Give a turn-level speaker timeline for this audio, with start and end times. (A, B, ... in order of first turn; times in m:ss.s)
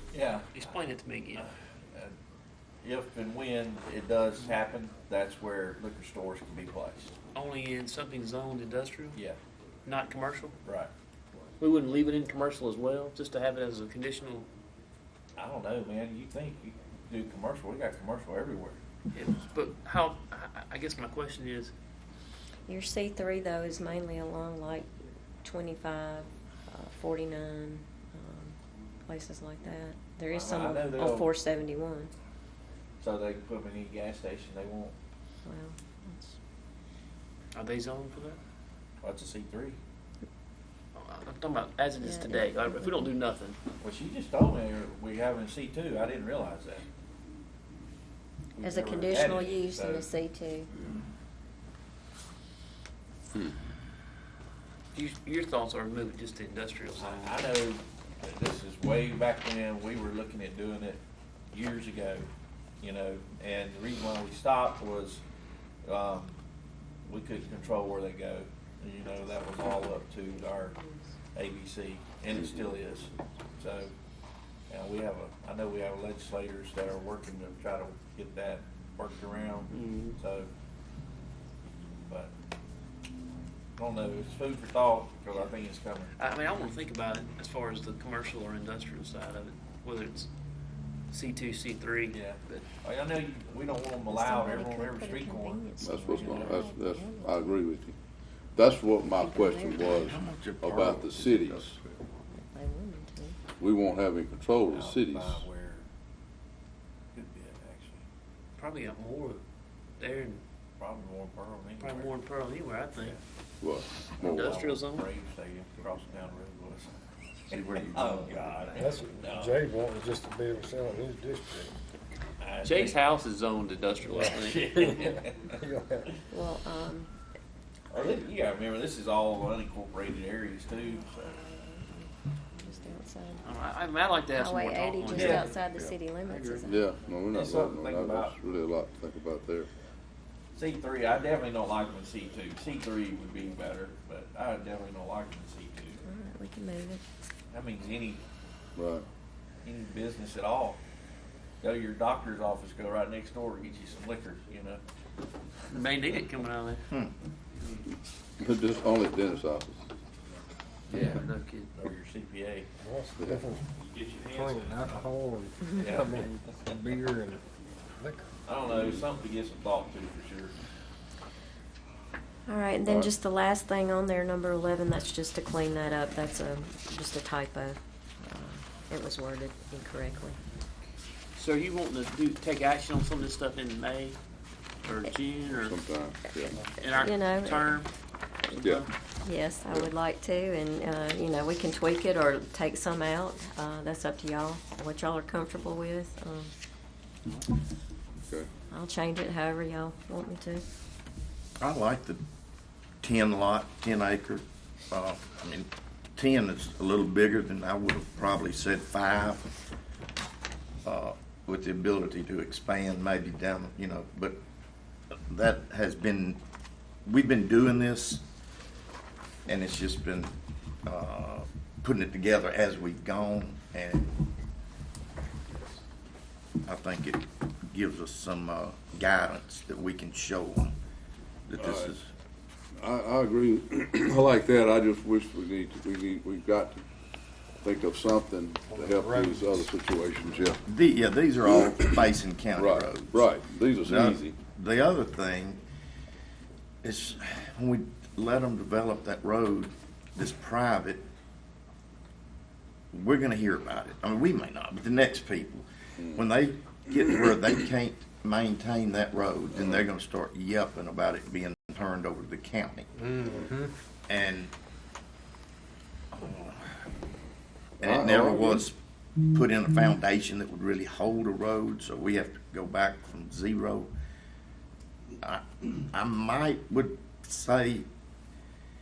0:00.1-0:00.6 A
0:00.5-0:01.4 B
0:01.4-0:02.1 A
0:02.8-0:07.1 A
0:07.3-0:09.2 B
0:09.8-0:10.5 B
0:10.6-0:10.9 A
0:11.6-0:14.5 B
0:15.4-0:18.8 A
0:19.1-0:21.7 B
0:22.7-0:24.9 C
0:25.4-0:32.1 C
0:30.3-0:31.3 A
0:33.0-0:34.9 A
0:35.4-0:36.4 C
0:37.5-0:38.4 B
0:39.0-0:39.8 A
0:41.0-0:43.6 B
0:42.0-0:43.1 C
0:43.8-0:46.8 A
0:48.6-0:50.1 A
0:48.6-0:50.7 C
0:54.9-0:57.4 B
0:57.0-1:01.0 A
1:01.5-1:02.3 A
1:02.8-1:05.2 A
1:05.8-1:06.4 A
1:07.0-1:10.8 A
1:09.3-1:11.1 C
1:11.3-1:13.9 A
1:12.3-1:12.6 D
1:14.7-1:20.5 A
1:19.7-1:20.2 B
1:23.8-1:26.1 A
1:26.2-1:30.3 B
1:31.1-1:32.2 B
1:32.1-1:35.6 A
1:34.1-1:37.5 C
1:35.8-1:37.9 D
1:36.2-1:36.6 A
1:38.6-1:41.7 D
1:39.1-1:39.8 C
1:39.8-1:41.9 E
1:42.3-1:43.4 C
1:43.6-1:45.4 D
1:44.7-1:45.8 A
1:47.1-1:48.0 A
1:48.6-1:49.4 B
1:50.0-1:50.4 B
1:50.8-1:52.1 A
1:51.8-1:53.2 B
1:53.6-1:54.6 D
1:54.2-1:56.9 A
1:54.2-1:55.0 B
1:57.5-1:59.6 A
1:57.5-1:58.6 E
1:58.7-2:01.7 F
2:02.4-2:03.0 A
2:02.6-2:05.0 B
2:04.2-2:05.6 A
2:05.6-2:06.1 F
2:06.3-2:07.1 C
2:07.9-2:11.3 A
2:10.8-2:13.4 C
2:13.4-2:16.6 B
2:14.3-2:16.8 C
2:15.1-2:15.5 A
2:16.6-2:19.7 D
2:17.3-2:18.3 A
2:20.6-2:26.0 A
2:26.0-2:27.0 C
2:27.5-2:28.2 A
2:28.8-2:29.0 D
2:29.6-2:30.8 A
2:31.6-2:34.8 A
2:35.7-2:36.8 B
2:38.4-2:39.8 D
2:40.9-2:41.2 A
2:40.9-2:41.7 B
2:41.7-2:42.7 A
2:42.8-2:43.7 F
2:43.2-2:43.4 D
2:43.8-2:45.1 A
2:44.3-2:47.4 F
2:45.8-2:47.0 A
2:48.0-2:48.2 F
2:48.4-2:50.5 A
2:48.7-2:49.0 D
2:52.5-3:00.4 C
2:52.8-2:53.1 D
3:01.4-3:04.2 B
3:04.8-3:05.8 B
3:05.5-3:06.6 D
3:06.7-3:07.9 B
3:07.0-3:07.8 C
3:08.5-3:08.9 B
3:08.6-3:08.9 D
3:09.2-3:16.5 C
3:17.2-3:17.5 B
3:18.7-3:20.6 C
3:21.6-3:22.2 E
3:23.0-3:29.5 E
3:30.8-3:34.4 E
3:35.3-3:36.4 E
3:37.0-3:38.2 E
3:39.4-3:40.3 E
3:40.8-3:44.3 E
3:46.6-3:50.7 E
3:51.5-3:52.1 E
3:51.6-3:51.9 D
3:52.8-3:56.8 D
3:57.6-4:00.6 D
3:58.7-3:59.7 F
4:00.7-4:03.2 E
4:01.4-4:02.0 D
4:02.6-4:04.4 D
4:03.8-4:05.6 E
4:06.8-4:11.0 E
4:12.9-4:23.4 E
4:16.0-4:16.2 D
4:23.0-4:23.7 F
4:24.1-4:24.5 E
4:26.1-4:26.8 E
4:27.8-4:33.9 E
4:27.8-4:28.7 D
4:35.2-4:37.9 E